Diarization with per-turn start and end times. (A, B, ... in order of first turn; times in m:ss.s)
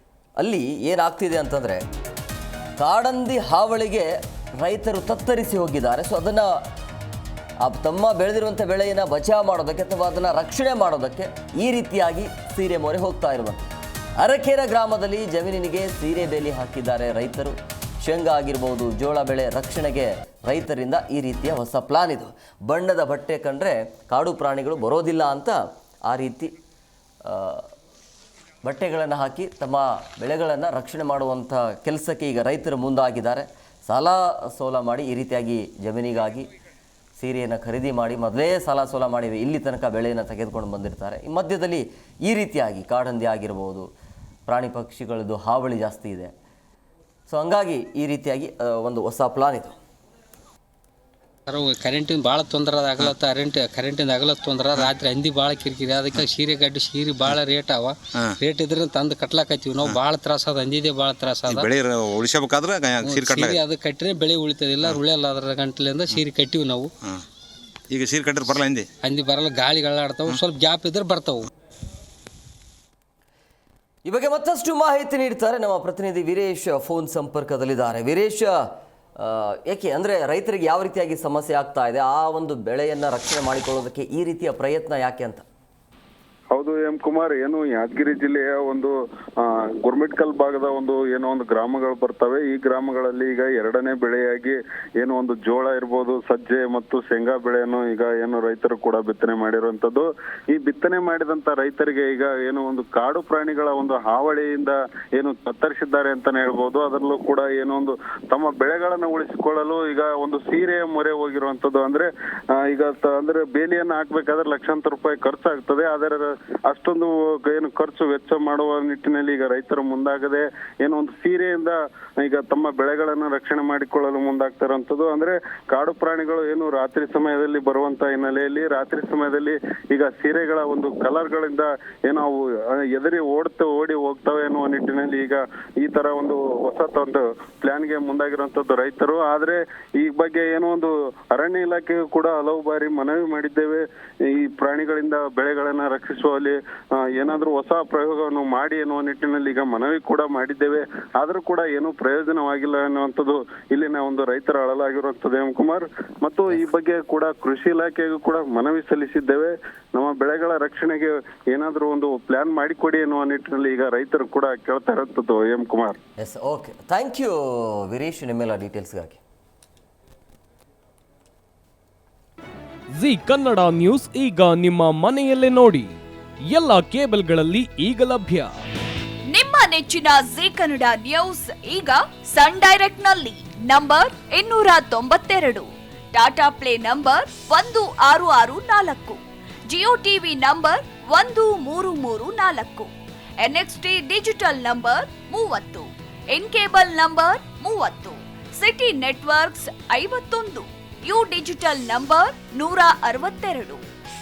0:00.4-0:01.8 A
0:02.8-0:06.6 A
0:07.6-0:13.7 A
0:14.2-0:26.5 A
0:27.2-0:27.6 A
0:28.6-0:36.5 A
0:37.2-0:43.9 A
0:44.5-0:46.3 A
0:47.3-0:49.8 A
0:51.5-1:01.7 B
1:01.4-1:03.6 C
1:03.0-1:06.9 B
1:07.9-1:08.9 C
1:09.0-1:11.5 B
1:14.0-1:18.6 A
1:19.2-1:25.4 A
1:26.5-2:46.0 D
2:46.2-2:49.2 A
2:53.0-2:55.9 E
2:56.5-2:58.5 E
2:59.3-3:09.2 F
3:09.7-3:12.9 F
3:13.4-3:23.8 F